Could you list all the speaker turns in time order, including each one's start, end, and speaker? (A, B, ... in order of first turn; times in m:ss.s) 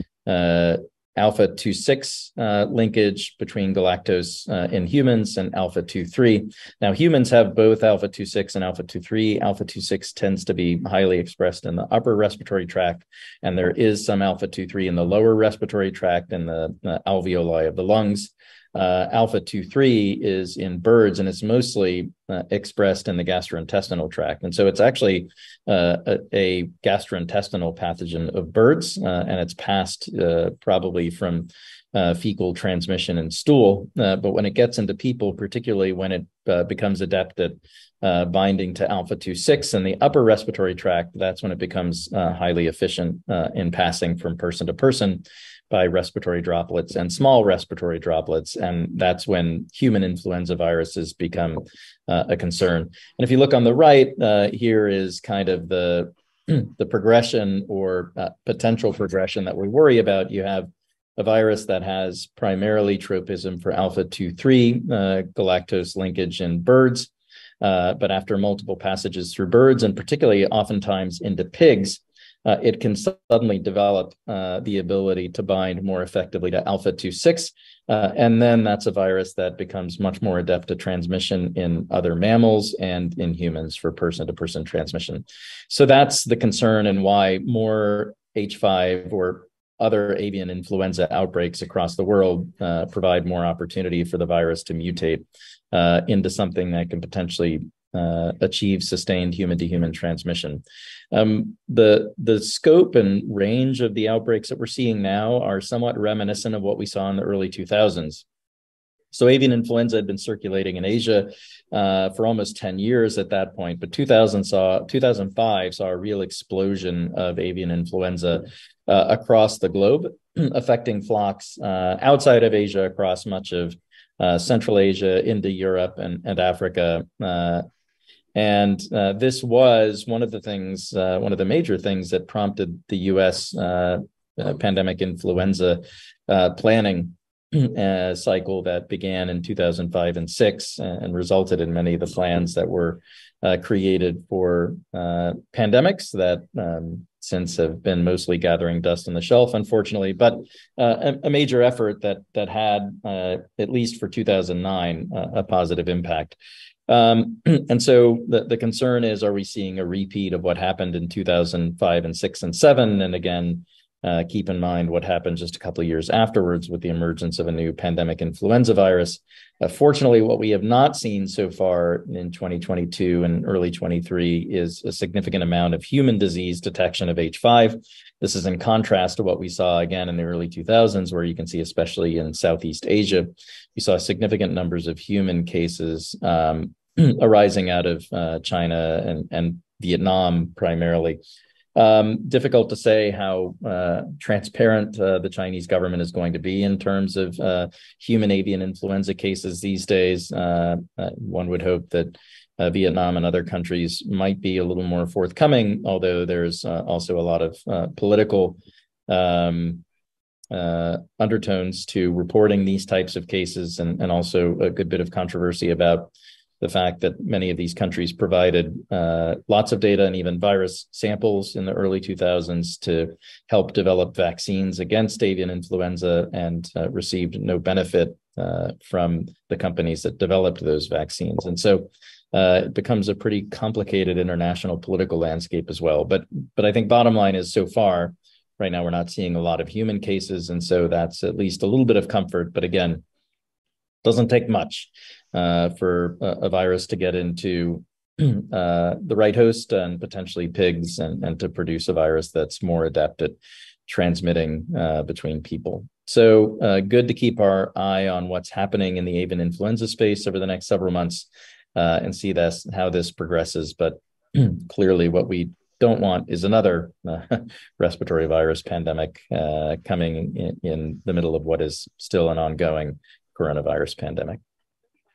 0:00.2-1:48.2 A
1:49.1-2:07.6 A
2:08.3-2:36.4 A
2:36.9-3:11.2 A
3:11.7-3:29.8 A
3:30.5-4:03.0 A
4:04.0-4:34.4 A